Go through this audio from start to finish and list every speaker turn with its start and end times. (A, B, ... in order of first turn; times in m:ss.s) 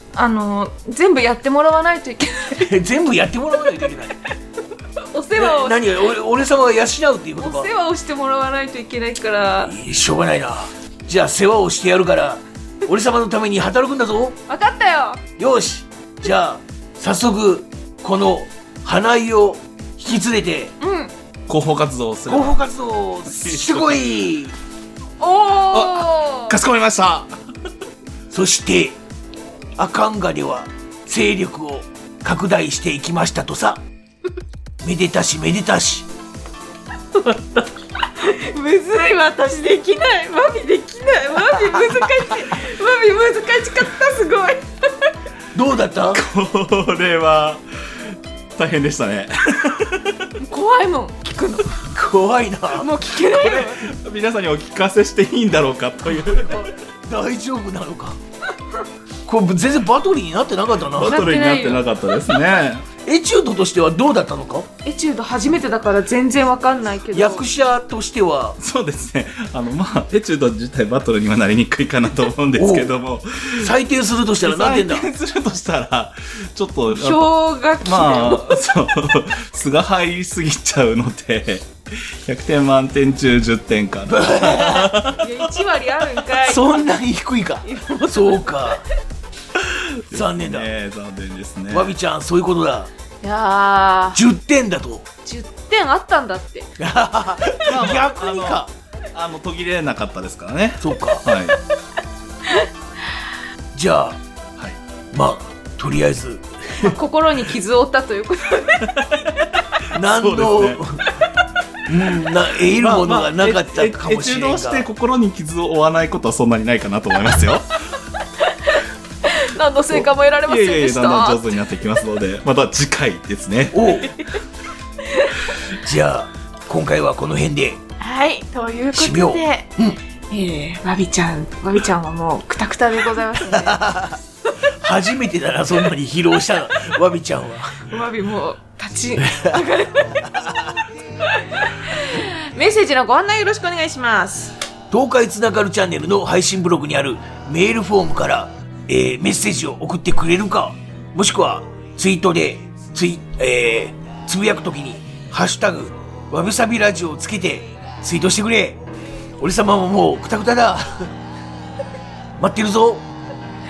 0:00.1-0:02.7 A
0:02.6-0:04.2 B
0:05.0-0:05.8 A
0:05.4-0:07.7 B
0:07.4-0:09.7 A
0:09.6-0:14.4 B
0:14.5-0:15.2 A
0:15.4-0:20.7 B
0:20.8-0:21.1 A
0:21.5-0:22.7 C
0:22.3-0:24.5 B
0:23.3-0:24.0 C
0:25.2-0:26.6 A
0:25.7-0:27.3 C
0:28.3-0:29.0 B
0:29.8-0:33.8 B
0:34.8-0:36.1 B
0:37.1-0:44.6 A
0:45.5-0:46.2 B
0:46.1-0:50.3 C
0:50.4-0:51.8 A
0:51.9-0:52.9 B
0:52.7-0:53.9 A
0:53.2-0:56.7 C
0:56.3-0:58.2 B
0:59.2-1:01.2 B
1:00.9-1:02.8 C
1:01.0-1:01.8 A
1:03.0-1:04.7 B
1:04.8-1:07.4 A
1:07.1-1:08.6 B
1:08.6-1:13.7 C
1:12.5-1:12.9 B
1:13.6-1:15.1 B
1:14.4-1:17.2 C
1:16.9-1:18.5 A
1:17.8-1:25.2 C
1:24.1-1:24.9 B
1:25.1-1:26.9 A
1:26.4-1:28.8 B
1:27.6-1:28.8 A
1:29.7-1:31.9 C
1:30.1-1:30.7 B
1:31.7-1:32.9 B
1:33.2-1:34.2 A
1:34.1-1:35.0 B
1:35.2-1:36.7 A
1:36.8-1:38.7 B
1:37.6-1:41.6 C
1:40.8-1:41.2 B
1:43.7-1:44.2 B
1:45.1-1:47.0 B
1:46.8-1:48.9 A
1:48.8-1:49.3 C
1:49.9-1:51.0 B
1:50.0-1:50.8 C
1:51.9-1:54.8 B
1:52.7-1:57.7 C
1:58.4-2:01.5 A
2:00.4-2:03.8 C
2:03.7-2:04.1 B
2:05.0-2:05.5 A
2:05.8-2:07.8 B
2:08.0-2:09.7 A
2:08.9-2:10.0 B
2:10.3-2:13.8 A
2:13.5-2:14.1 B
2:14.8-2:17.8 B
2:17.9-2:20.3 A
2:21.2-2:24.5 A
2:24.9-2:38.8 B
2:39.4-2:41.1 B
2:42.4-2:43.1 B